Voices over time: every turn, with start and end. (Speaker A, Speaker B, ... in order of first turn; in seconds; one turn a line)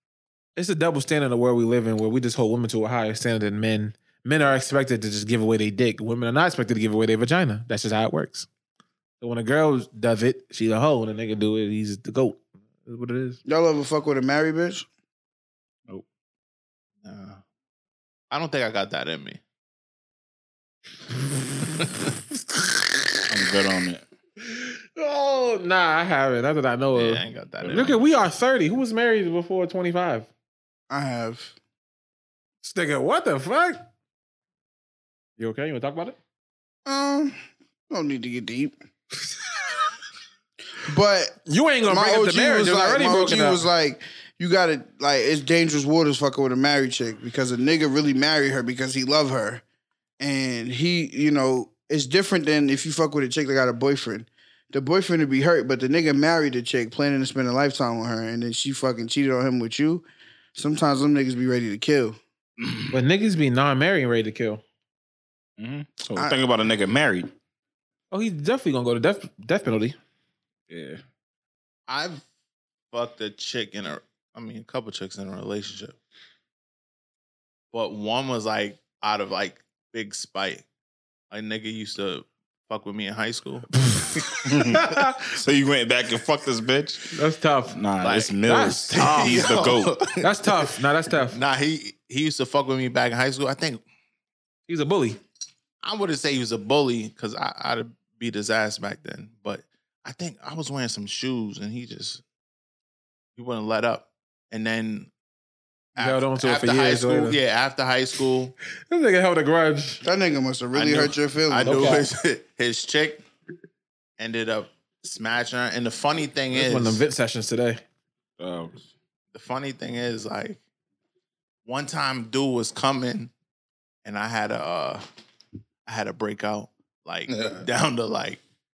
Speaker A: 0.6-8.5
Speaker A: 9.2-13.4
Speaker B: 13.4-14.8
Speaker C: 17.0-17.4
Speaker C: 18.3-19.4
Speaker D: 23.3-24.0
Speaker A: 24.4-30.3
Speaker C: 26.9-28.0
Speaker B: 30.9-31.5
Speaker A: 32.6-33.8
Speaker A: 35.4-36.2
Speaker B: 36.9-37.4
Speaker B: 37.9-38.7
Speaker B: 40.8-49.6
Speaker A: 41.5-43.7
Speaker B: 50.2-62.2
Speaker D: 62.6-62.9
Speaker A: 62.9-64.6
Speaker D: 65.6-67.3
Speaker B: 66.1-66.4
Speaker A: 68.1-70.0
Speaker D: 70.7-71.0
Speaker C: 71.9-72.2
Speaker C: 72.9-76.0
Speaker C: 77.7-80.6
Speaker C: 81.3-83.7
Speaker A: 83.8-85.2
Speaker D: 84.5-87.0
Speaker A: 87.1-87.8
Speaker D: 87.7-90.0
Speaker C: 88.0-88.4
Speaker A: 88.5-91.4
Speaker C: 88.9-90.6
Speaker C: 91.2-93.8
Speaker A: 94.7-95.2
Speaker C: 95.8-102.2
Speaker C: 103.4-105.1
Speaker C: 106.0-108.5
Speaker A: 106.0-107.4
Speaker A: 108.9-110.0
Speaker B: 110.0-112.0
Speaker C: 110.7-113.2
Speaker A: 111.6-112.0
Speaker C: 114.2-117.0
Speaker A: 116.5-117.8
Speaker D: 118.4-118.8
Speaker C: 119.3-120.6
Speaker C: 121.7-123.3
Speaker C: 124.0-125.0
Speaker C: 125.9-128.4
Speaker D: 127.3-127.6